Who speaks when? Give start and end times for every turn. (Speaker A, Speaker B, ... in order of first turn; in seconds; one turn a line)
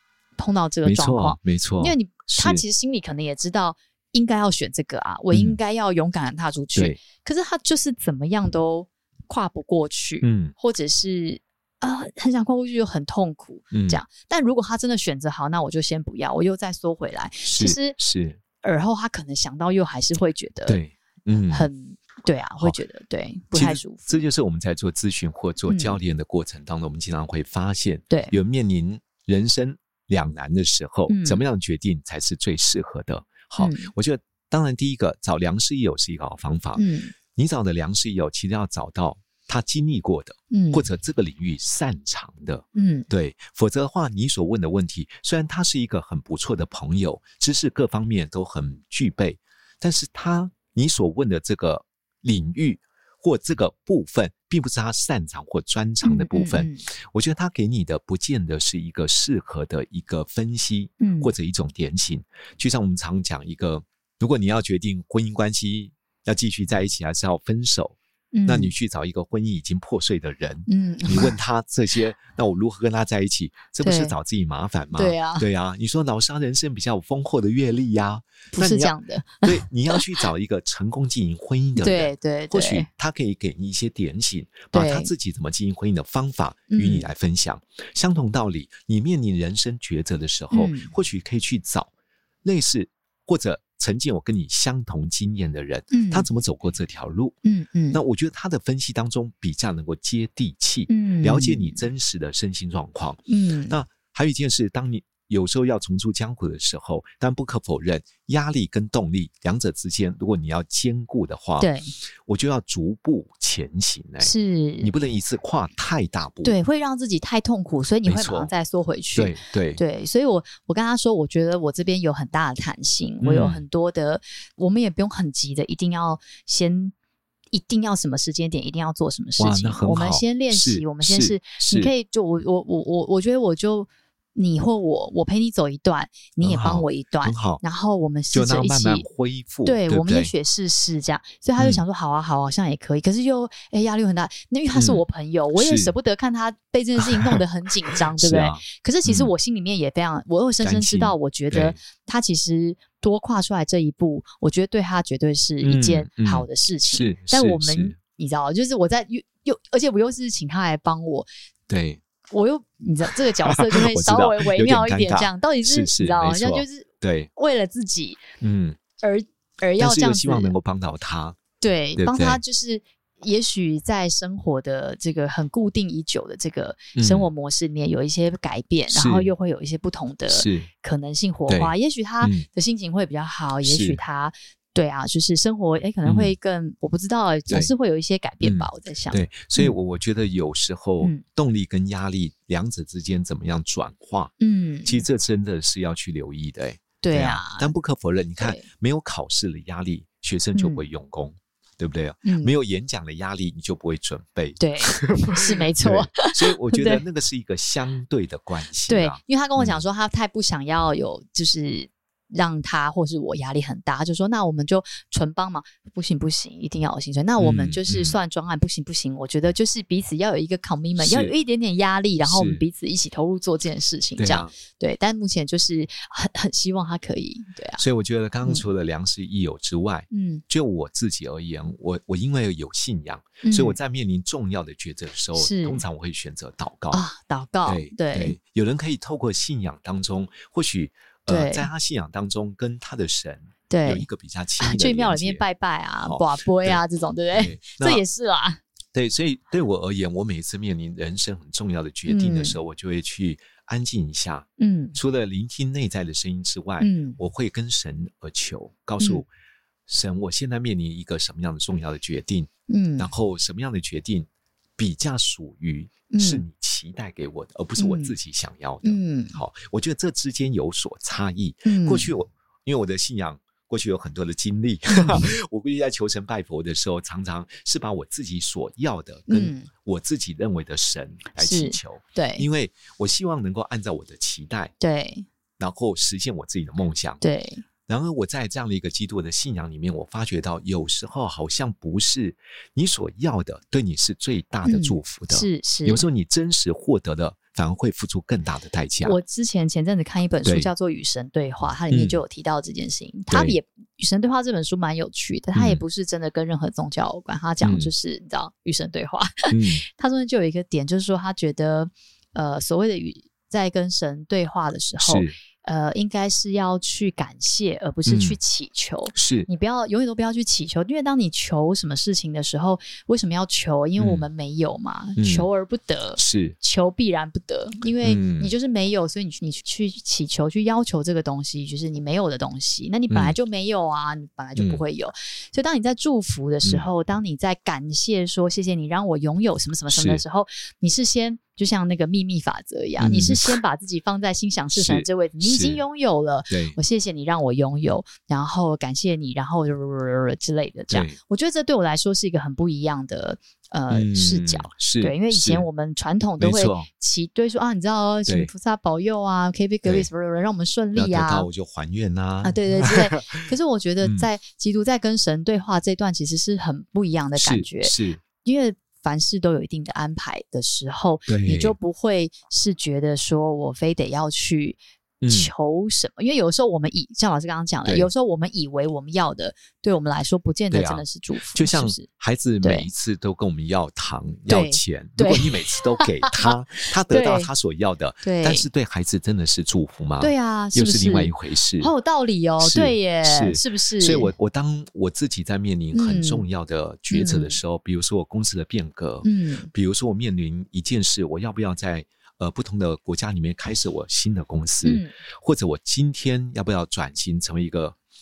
Speaker A: 0.4-17.9
Speaker B: 0.8-2.6
Speaker B: 5.3-5.6
Speaker B: 6.7-7.0
Speaker B: 10.2-10.5
Speaker B: 13.7-14.0
Speaker B: 17.4-18.4
Speaker A: 18.6-20.8
Speaker B: 20.6-21.7
Speaker A: 21.5-24.2
Speaker B: 23.5-91.9
Speaker A: 25.7-26.0
Speaker A: 28.1-28.3
Speaker A: 31.1-31.4
Speaker A: 33.6-33.9
Speaker A: 36.8-37.1
Speaker A: 40.5-40.9
Speaker A: 42.8-43.1
Speaker A: 56.0-56.8
Speaker A: 61.0-61.3
Speaker A: 68.3-68.7
Speaker A: 70.7-71.3
Speaker A: 73.8-74.1
Speaker A: 74.9-75.5
Speaker A: 78.5-80.2
Speaker A: 81.8-82.9
Speaker A: 84.7-85.1
Speaker A: 86.7-87.1
Speaker A: 90.5-90.9
Speaker B: 92.4-97.4
Speaker A: 95.9-96.3
Speaker A: 97.4-98.0
Speaker B: 97.9-111.7
Speaker A: 100.9-101.8
Speaker A: 103.3-103.8
Speaker A: 111.6-111.9
Speaker B: 112.2-116.5
Speaker A: 114.2-114.9
Speaker A: 116.4-126.9
Speaker B: 118.0-118.5
Speaker B: 119.1-119.8
Speaker B: 123.2-123.6
Speaker A: 127.5-139.1
Speaker B: 129.4-131.9
Speaker B: 136.4-137.6
Speaker B: 138.3-140.3
Speaker A: 139.6-161.3
Speaker B: 144.7-145.0
Speaker B: 145.6-145.9
Speaker B: 147.0-147.4
Speaker B: 148.1-149.3
Speaker B: 150.6-151.8
Speaker B: 155.6-158.0
Speaker B: 161.7-162.0
Speaker A: 162.3-168.2
Speaker B: 163.5-167.3
Speaker B: 168.4-168.8
Speaker A: 169.0-170.6
Speaker B: 169.8-171.4
Speaker A: 171.6-189.8
Speaker B: 171.9-172.4
Speaker B: 176.9-177.3
Speaker B: 178.9-179.3
Speaker B: 180.3-180.7
Speaker B: 181.5-182.4
Speaker B: 183.6-184.0
Speaker B: 186.0-186.3
Speaker B: 188.4-194.3
Speaker A: 194.4-195.0
Speaker B: 194.8-209.8
Speaker A: 197.0-197.7
Speaker A: 198.4-198.7
Speaker A: 200.5-200.8
Speaker A: 202.2-202.5
Speaker A: 204.6-207.0
Speaker A: 208.9-227.8
Speaker B: 217.4-218.2
Speaker B: 221.0-221.3
Speaker B: 222.2-222.6
Speaker B: 224.2-224.5
Speaker B: 227.8-237.0
Speaker A: 230.1-230.4
Speaker A: 233.4-233.8
Speaker A: 235.3-235.8
Speaker A: 236.9-238.3
Speaker B: 237.6-245.4
Speaker A: 241.3-241.7
Speaker A: 243.7-244.1
Speaker A: 244.6-248.6
Speaker B: 246.0-246.8
Speaker B: 247.3-248.0
Speaker B: 248.9-259.3
Speaker A: 252.1-252.6
Speaker A: 254.6-255.0
Speaker A: 256.8-257.2
Speaker B: 259.9-284.7
Speaker A: 262.7-263.1
Speaker A: 266.1-266.4
Speaker A: 267.8-268.1
Speaker A: 268.8-269.4
Speaker A: 271.6-272.1
Speaker A: 279.3-279.7
Speaker A: 281.3-282.4
Speaker A: 284.8-285.2
Speaker B: 285.6-287.2
Speaker A: 287.2-287.6
Speaker B: 287.9-299.2
Speaker A: 294.6-296.0
Speaker A: 299.0-361.5
Speaker B: 300.4-300.7
Speaker B: 301.9-302.2
Speaker B: 303.3-303.6
Speaker B: 305.5-305.8
Speaker B: 307.6-307.9
Speaker B: 309.5-309.8
Speaker B: 315.0-315.3
Speaker B: 318.1-318.4
Speaker B: 319.1-319.5
Speaker B: 324.0-324.3
Speaker B: 325.2-325.5
Speaker B: 326.2-326.6
Speaker B: 328.0-328.5
Speaker B: 333.1-333.4
Speaker B: 334.6-334.8
Speaker B: 339.9-340.2
Speaker B: 343.0-343.6
Speaker B: 344.7-345.8
Speaker B: 346.5-346.8
Speaker B: 350.9-351.2
Speaker B: 353.9-355.6
Speaker B: 356.4-356.9
Speaker B: 360.9-363.4
Speaker A: 362.4-382.1
Speaker B: 364.0-364.3
Speaker B: 367.4-368.2
Speaker B: 371.3-371.7
Speaker B: 375.2-375.5
Speaker B: 380.7-391.9
Speaker A: 382.6-382.9
Speaker A: 384.5-386.5
Speaker A: 387.1-387.5
Speaker A: 388.2-388.7
Speaker A: 390.2-394.3
Speaker B: 392.6-408.0
Speaker A: 395.9-396.4
Speaker A: 397.1-397.6
Speaker A: 399.2-399.7
Speaker A: 404.8-405.1